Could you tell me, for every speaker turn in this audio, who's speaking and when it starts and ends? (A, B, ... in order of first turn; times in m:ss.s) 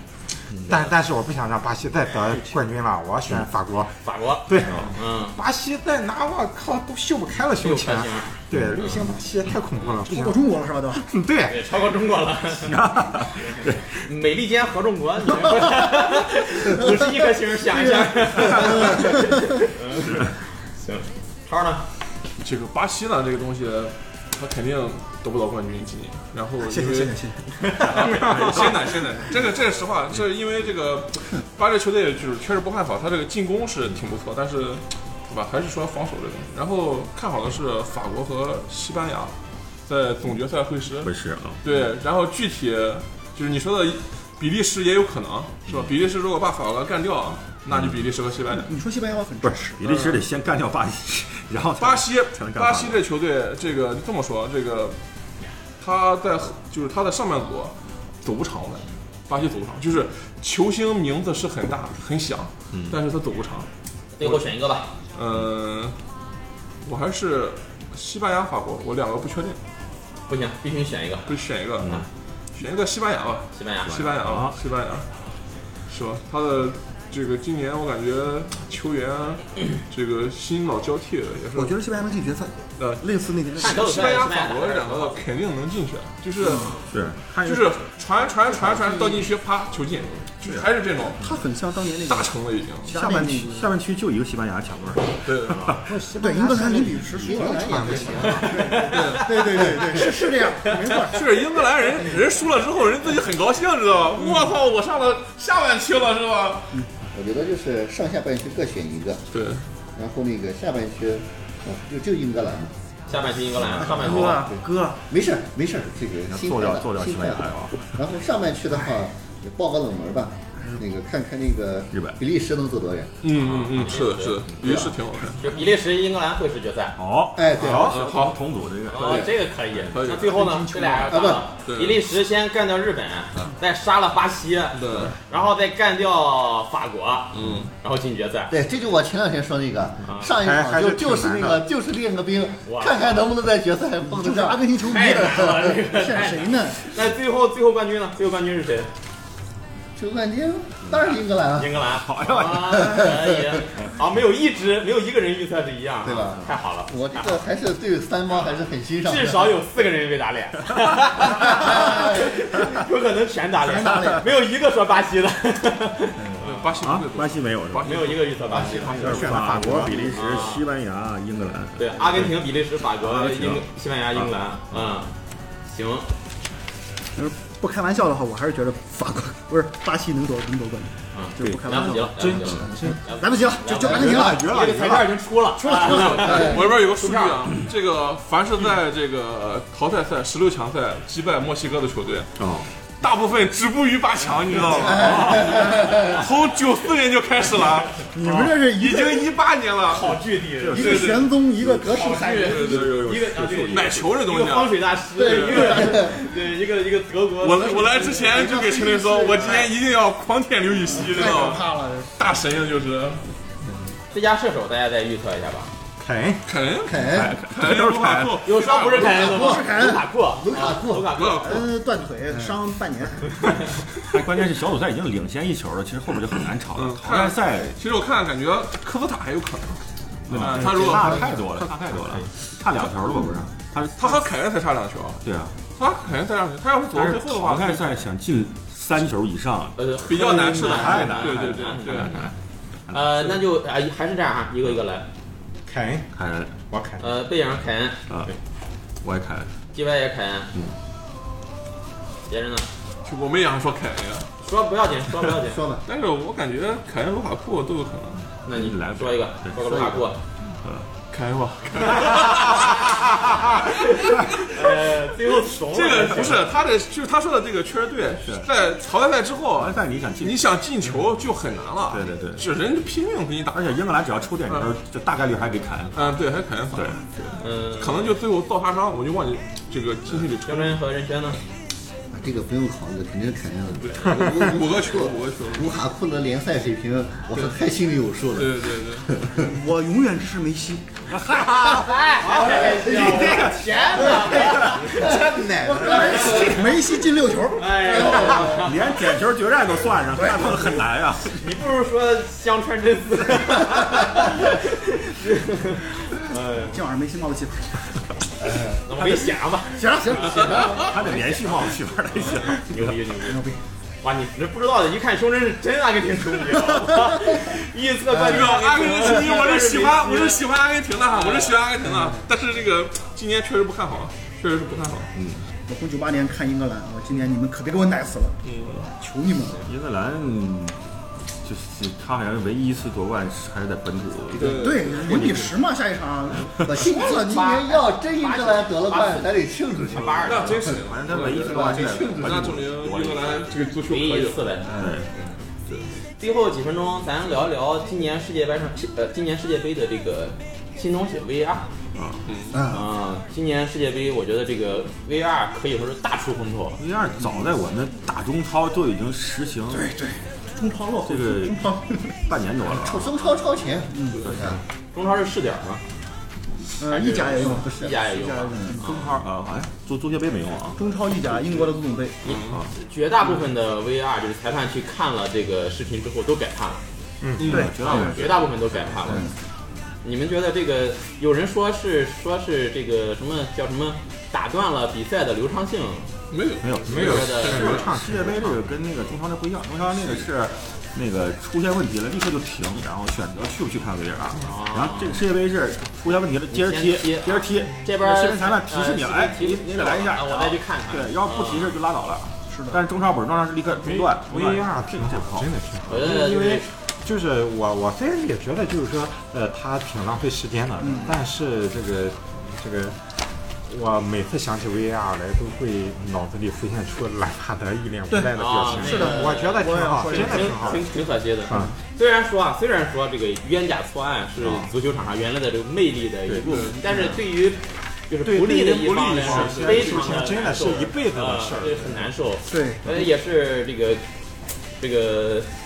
0:00.5-0:00.8 A
0:00.6-0:10.4 B
0:04.0-0:05.4 C
0:04.7-0:05.0 A
0:07.6-0:09.0 C
0:08.5-0:08.8 A
0:10.0-0:11.0 D
0:10.9-0:11.7 B
0:11.5-0:12.8 C
0:12.6-0:13.8 A
0:13.5-0:21.8 C
0:17.7-0:19.4 D
0:22.4-0:27.2 E
0:26.6-0:27.5 D
0:27.8-0:39.3 E
0:27.9-0:28.7 A
0:39.9-0:41.1 E
0:41.0-0:41.6 A
0:41.6-0:48.7 E
0:47.7-0:48.1 A
0:48.6-0:50.0 D
0:49.7-0:53.0 A
0:51.8-0:55.0 E
0:55.8-1:03.7 E
1:02.7-1:03.0 A
1:04.2-1:04.9 C
1:05.1-1:06.0 E
1:06.8-1:09.6 E
1:10.3-1:11.3 C
1:11.3-1:12.0 E
1:11.8-1:12.1 A
1:12.6-1:15.1 E
1:13.5-1:13.9 C
1:13.8-1:14.6 A
1:15.9-1:21.7 E
1:21.5-1:23.8 D
1:22.8-1:23.0 E
1:23.6-1:26.8 E
1:23.6-1:25.2 C
1:26.4-1:26.7 D
1:26.9-1:27.8 A
1:27.4-1:31.2 E
1:28.7-1:29.2 D
1:30.4-1:30.7 A
1:31.2-1:32.3 D
1:31.8-1:32.9 E
1:32.8-1:33.7 D
1:33.3-1:35.8 A
1:35.2-1:35.7 E
1:35.8-1:38.4 B
1:36.2-1:41.5 D
1:37.1-1:40.2 F
1:38.9-1:39.4 E
1:41.0-1:46.8 E
1:47.1-1:49.2 F
1:49.3-1:49.6 E
1:50.0-1:52.7 F
1:53.1-1:54.4 C
1:53.8-1:55.0 D
1:53.8-1:54.6 F
1:55.1-2:03.1 F
1:56.3-1:57.9 A
2:01.9-2:02.2 A
2:03.2-2:05.4 E
2:03.4-2:04.9 C
2:04.6-2:05.0 F
2:05.4-2:07.0 C
2:07.0-2:09.3 A
2:07.3-2:08.0 F
2:07.6-2:08.0 B
2:07.8-2:09.3 E
2:08.9-2:17.3 C
2:09.9-2:10.6 E
2:10.4-2:11.3 D
2:11.0-2:11.4 F
2:11.6-2:12.0 E
2:14.7-2:15.1 E
2:17.3-2:17.7 E
2:17.8-2:18.5 C
2:18.5-2:25.5 F
2:20.0-2:20.3 C
2:20.4-2:21.6 B
2:22.6-2:23.2 C
2:24.1-2:26.8 D
2:24.9-2:28.9 C
2:30.0-2:31.8 F
2:31.6-2:37.4 C
2:31.9-2:33.0 A
2:32.7-2:33.6 F
2:36.0-2:39.6 F
2:39.0-2:46.7 C
2:41.3-2:42.6 F
2:43.6-2:44.2 F
2:46.4-2:49.4 E
2:46.8-2:52.4 A
2:47.8-2:49.0 C
2:48.5-2:50.0 F
2:49.0-2:50.0 B
2:50.1-2:50.6 C
2:51.8-2:55.1 C
2:53.0-2:54.9 A
2:55.7-2:56.0 C
2:57.2-3:05.0 D
3:01.1-3:07.4 C
3:02.2-3:03.0 B
3:04.0-3:05.1 B
3:05.6-3:06.5 D
3:05.7-3:12.3 E
3:06.2-3:06.6 F
3:12.4-3:12.7 A
3:13.0-3:20.2 E
3:14.7-3:16.2 F
3:18.1-3:19.3 D
3:19.9-3:21.0 C
3:20.6-3:22.0 A
3:20.7-3:22.8 D
3:20.7-3:21.3 E
3:21.9-3:28.5 C
3:22.4-3:23.0 E
3:22.6-3:24.1 A
3:23.7-3:25.8 E
3:25.2-3:26.2 F
3:25.5-3:25.9 D
3:27.4-3:31.6 E
3:28.4-3:29.2 D
3:30.9-3:32.1 D
3:32.2-3:33.2 E
3:34.1-3:35.7 C
3:36.0-3:36.4 B
3:36.4-3:39.2 E
3:36.8-3:37.4 F
3:37.0-3:38.5 A
3:38.4-3:41.6 C
3:39.0-3:40.0 D
3:39.0-3:41.3 F
3:41.1-3:41.8 E
3:41.4-3:43.4 D
3:44.0-3:47.8 A
3:46.7-3:49.8 E
3:50.3-3:54.2 A
3:50.3-3:51.2 E
3:50.8-3:52.2 B
3:54.0-3:55.2 E
3:55.2-3:55.5 A
3:55.8-3:57.9 E
3:56.9-3:59.8 A
3:59.8-4:02.1 C
4:00.1-4:02.2 E
4:00.6-4:02.3 A
4:02.9-4:03.4 A
4:02.9-4:05.0 C
4:05.7-4:06.1 B
4:06.1-4:06.5 A
4:06.7-4:07.0 B
4:07.0-4:08.0 C
4:09.0-4:09.5 A
4:09.7-4:10.5 C
4:12.3-4:12.6 C
4:13.0-4:14.3 E
4:14.4-4:15.6 C
4:15.4-4:15.8 F
4:15.8-4:18.2 E
4:18.4-4:20.2 C
4:18.5-4:20.0 A
4:21.1-4:22.9 E
4:23.5-4:25.0 E
4:23.7-4:26.4 C
4:25.6-4:33.6 E
4:29.6-4:30.4 A
4:31.9-4:32.5 A
4:33.5-4:36.2 A
4:35.9-4:40.8 E
4:36.7-4:37.0 A
4:37.4-4:38.1 C
4:40.5-4:41.4 C
4:42.1-4:49.3 F
4:43.8-4:45.8 E
4:48.3-4:49.1 E
4:49.4-4:51.6 D
4:51.1-4:52.0 A
4:51.8-4:55.1 C
4:52.4-4:53.3 F
4:52.8-4:54.7 A
4:54.0-4:54.3 D
4:54.0-4:56.8 F
4:55.0-4:58.5 D
4:55.0-4:55.8 B
4:56.1-4:56.5 C
4:57.6-4:59.0 C
4:57.9-4:58.4 F
4:58.5-5:01.4 A
5:00.2-5:00.7 D
5:01.3-5:06.8 C
5:06.6-5:07.7 D
5:08.8-5:13.4 C
5:09.7-5:10.7 D
5:10.4-5:10.9 E
5:10.4-5:10.8 F
5:10.7-5:12.9 A
5:13.2-5:13.6 D
5:14.0-5:20.4 C
5:18.1-5:18.4 F
5:18.2-5:25.1 E
5:21.1-5:21.5 C
5:25.1-5:25.4 A
5:25.7-5:28.3 D
5:28.4-5:28.8 E
5:28.9-5:29.6 D
5:29.6-5:30.8 A
5:31.4-5:35.5 A
5:34.3-5:35.3 E
5:34.4-5:36.5 D
5:36.6-5:40.8 F
5:36.9-5:40.6 C
5:40.3-5:44.5 E
5:40.7-5:43.4 A
5:41.5-5:42.1 F
5:43.9-5:45.3 C
5:44.7-5:45.1 A
5:46.2-5:51.6 C
5:52.0-5:52.2 A
5:52.2-5:52.6 E
5:52.7-5:56.8 C
5:56.8-5:59.9 A
5:59.7-6:02.0 D
6:01.0-6:01.6 A
6:02.2-6:03.1 A
6:02.7-6:04.6 F
6:03.9-6:04.2 D
6:04.2-6:04.6 A
6:04.9-6:05.8 C
6:06.8-6:09.2 D
6:07.0-6:09.2 C
6:07.3-6:08.8 F
6:08.8-6:10.8 A
6:10.8-6:12.2 D
6:12.2-6:16.8 C
6:17.2-6:17.5 B
6:17.4-6:18.1 E
6:17.4-6:17.9 D
6:17.5-6:19.3 A
6:17.8-6:19.3 C
6:20.0-6:26.1 C
6:26.3-6:27.9 E
6:26.6-6:45.5 A
6:26.8-6:28.6 B
6:27.0-6:27.7 C
6:34.4-6:35.2 C
6:36.5-6:41.8 C
6:42.5-6:42.8 D
6:44.3-6:53.1 B
6:45.9-6:46.7 C
6:50.8-6:51.2 D
6:53.6-7:00.9 B
6:58.1-7:00.9 D
6:58.4-7:14.0 C
7:01.5-7:01.7 B
7:04.4-7:04.7 A
7:06.4-7:06.8 E
7:06.8-7:07.2 D
7:08.3-7:12.1 B
7:08.7-7:10.2 E
7:12.5-7:13.0 D
7:14.8-7:15.5 C